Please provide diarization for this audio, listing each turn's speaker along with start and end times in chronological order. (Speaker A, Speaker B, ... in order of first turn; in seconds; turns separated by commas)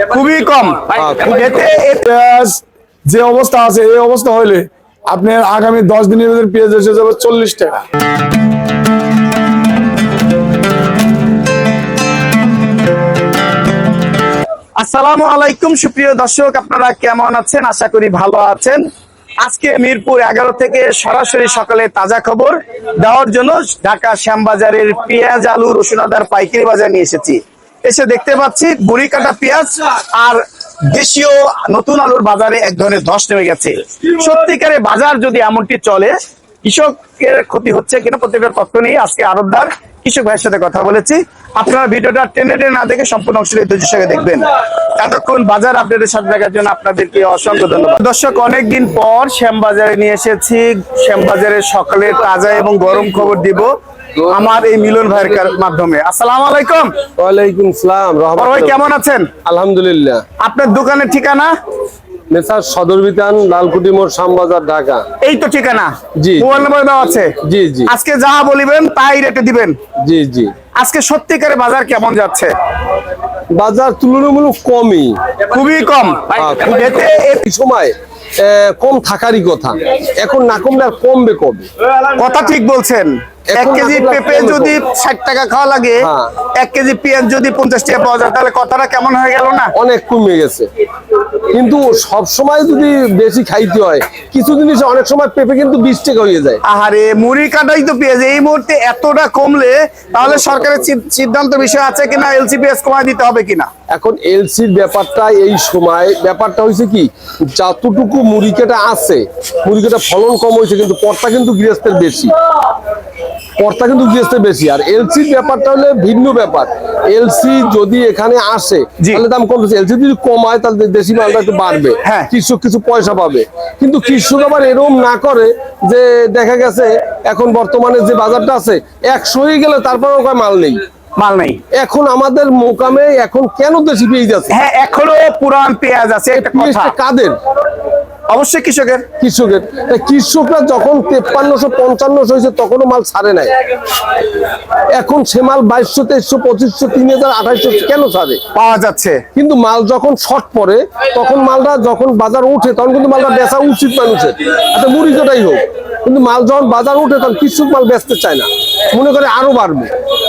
Speaker A: 0.1-2.1, Speaker B: 1.0-1.6, Speaker C: 2.1-7.8, Speaker A: 14.8-18.8, Speaker A: 19.4-53.7, Speaker A: 54.3-56.9, Speaker B: 57.2-58.9, Speaker A: 58.4-59.3, Speaker B: 59.5-60.2, Speaker A: 60.4-61.5, Speaker B: 62.3-65.0, Speaker A: 65.2-67.3, Speaker B: 66.2-66.7, Speaker B: 67.4-67.9, Speaker A: 67.9-69.8, Speaker B: 70.0-70.5, Speaker A: 70.8-72.5, Speaker B: 73.5-75.2, Speaker A: 75.5-77.4, Speaker B: 76.4-81.7, Speaker A: 82.1-86.1, Speaker B: 83.5-84.8, Speaker B: 86.0-86.3, Speaker A: 86.6-89.7, Speaker B: 89.8-90.7, Speaker B: 91.5-96.6, Speaker A: 96.7-103.7, Speaker B: 100.2-100.9, Speaker B: 103.9-112.3, Speaker B: 113.6-130.8, Speaker A: 122.0-122.3, Speaker A: 131.2-131.6, Speaker B: 131.7-134.6, Speaker A: 134.5-137.0, Speaker B: 136.3-137.4, Speaker A: 138.3-139.1, Speaker B: 139.2-143.5, Speaker B: 144.9-148.4, Speaker A: 148.6-149.2, Speaker B: 149.3-159.9